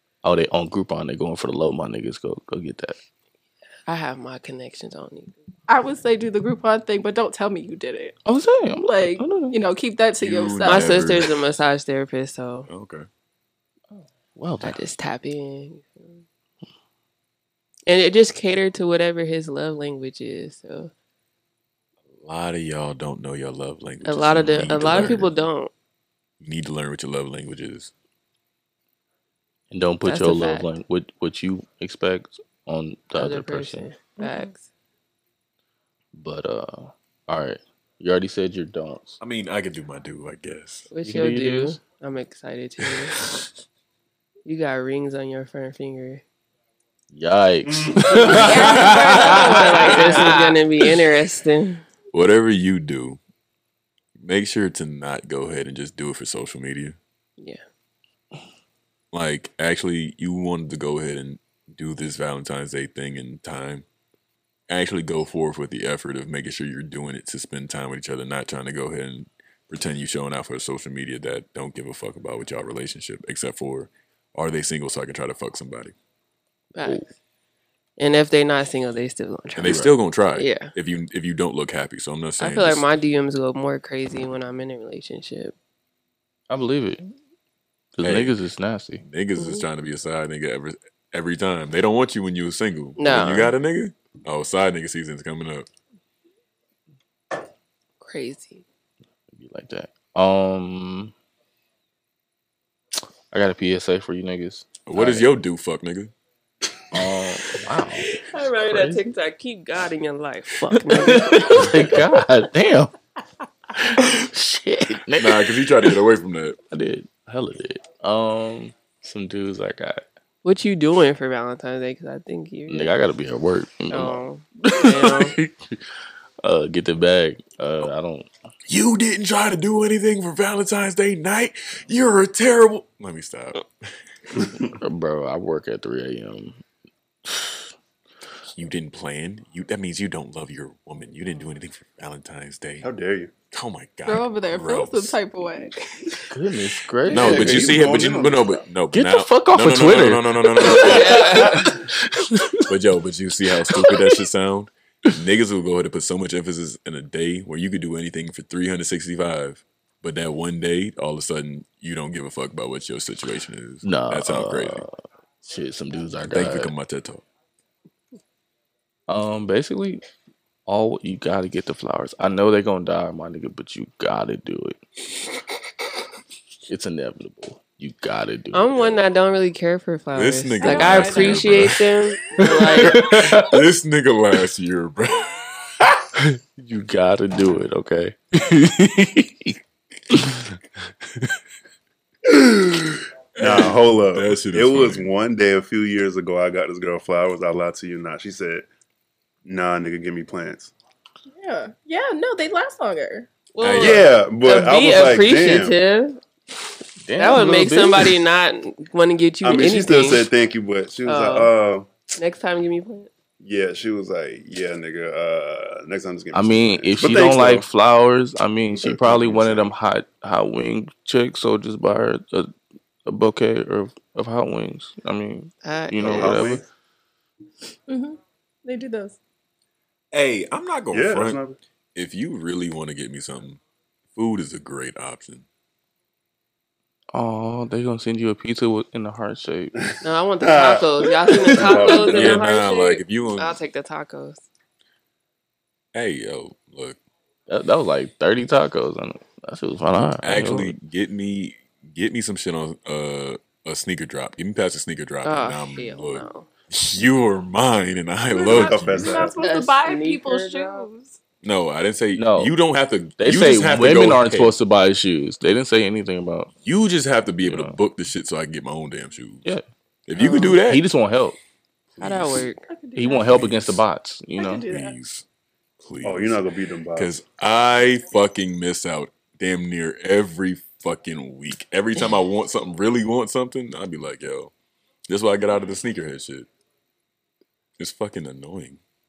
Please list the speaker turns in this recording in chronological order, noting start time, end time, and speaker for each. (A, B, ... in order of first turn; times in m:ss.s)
0:00.2-0:03.0 A
0:03.9-0:05.4 B
0:05.7-0:08.1 C
0:08.2-0:09.6 A
0:08.8-0:11.1 C
0:10.2-0:11.3 D
0:10.6-0:12.7 B
0:12.7-0:13.1 D
0:13.9-0:14.8 A
0:14.6-0:16.2 B
0:17.9-0:20.9 B
0:22.2-0:25.3 D
0:24.0-0:25.7 B
0:26.4-0:27.9 D
0:29.7-0:33.9 A
0:30.0-0:30.7 B
0:33.1-0:34.6 B
0:34.2-0:34.5 C
0:36.1-0:39.2 A
0:39.2-0:40.9 D
0:40.9-0:43.2 B
0:41.0-0:41.8 A
0:44.4-0:46.2 B
0:47.1-0:50.5 A
0:47.6-0:48.4 E
0:48.2-0:50.6 C
0:48.4-0:49.4 D
0:48.8-0:51.8 B
0:52.1-0:53.2 D
0:54.2-0:57.0 D
0:59.1-1:03.8 D
1:04.7-1:15.9 D
1:16.7-1:17.1 B
1:18.0-1:19.8 B
1:19.6-1:22.8 D
1:19.6-1:19.9 A
1:20.3-1:20.7 B
1:22.4-1:25.5 B
1:26.5-1:27.1 A
1:28.0-1:29.0 A
1:28.0-1:28.4 D
1:29.0-1:35.7 D
1:29.4-1:29.6 B
1:33.0-1:33.5 B
1:38.0-1:38.6 B
1:39.3-1:41.1 A
1:43.3-1:45.3 A
1:44.8-1:46.1 D
1:46.9-1:49.0 A
1:48.0-1:52.0 B
1:50.7-1:52.9 A
1:53.7-1:55.9 A
1:55.2-1:56.6 D
1:56.7-2:00.0 A
2:00.4-2:02.9 B
2:02.7-2:05.8 A
2:03.9-2:05.4 B
2:06.4-2:08.3 A
2:08.7-2:13.6 D
2:14.8-2:16.6 A
2:17.2-2:17.6 A
2:18.5-2:22.9 D
2:22.8-2:23.3 E
2:23.5-2:25.2 D
2:24.1-2:26.0 C
2:26.3-2:27.8 A
2:27.1-2:31.5 D
2:27.1-2:28.6 E
2:28.9-2:32.6 A
2:30.7-2:31.7 B
2:32.7-2:44.8 D
2:33.7-2:34.0 A
2:43.8-2:46.7 A
2:46.3-2:47.2 D
2:49.1-2:50.0 A
2:50.7-2:54.8 A
2:56.7-2:58.7 A
2:58.5-3:03.0 B
3:00.1-3:01.8 D
3:00.6-3:01.6 C
3:02.4-3:03.6 A
3:02.8-3:05.5 D
3:06.2-3:09.6 A
3:10.1-3:10.5 A
3:12.2-3:18.7 E
3:13.4-3:15.1 D
3:19.4-3:20.7 E
3:21.3-3:23.3 C
3:23.5-3:26.2 B
3:23.6-3:24.0 D
3:23.8-3:25.8 E
3:27.0-3:28.2 A
3:27.2-3:30.3 B
3:29.4-3:31.9 E
3:31.0-3:31.5 B
3:32.2-3:33.1 B
3:33.4-3:37.6 E
3:36.3-3:42.5 A
3:38.7-3:39.7 E
3:43.0-3:46.6 A
3:45.6-3:46.5 B
3:46.0-3:46.6 E
3:47.9-3:49.2 C
3:50.1-3:51.4 D
3:50.9-3:51.6 E
3:51.9-3:53.6 D
3:54.1-3:55.4 D
3:57.1-3:59.8 A
4:00.0-4:04.4 B
4:00.4-4:02.4 E
4:01.8-4:03.6 D
4:05.9-4:07.0 D
4:07.5-4:10.7 A
4:10.2-4:19.3 D
4:15.2-4:16.5 B
4:18.3-4:21.2 C
4:18.5-4:19.4 E
4:19.4-4:20.9 B
4:21.4-4:24.6 D
4:22.2-4:22.6 A
4:23.2-4:26.5 A
4:26.6-4:29.5 D
4:27.4-4:27.8 A
4:30.1-4:30.8 D
4:30.2-4:30.6 B
4:30.5-4:31.4 A
4:32.0-4:32.4 D
4:32.0-4:32.6 B
4:32.6-4:33.6 C
4:32.9-4:34.7 A
4:33.3-4:33.8 D
4:34.4-4:34.9 C
4:34.6-4:35.2 D
4:35.8-4:36.4 D
4:36.0-4:37.1 E
4:36.9-4:44.5 D
4:45.1-4:46.5 D
4:47.8-4:48.8 D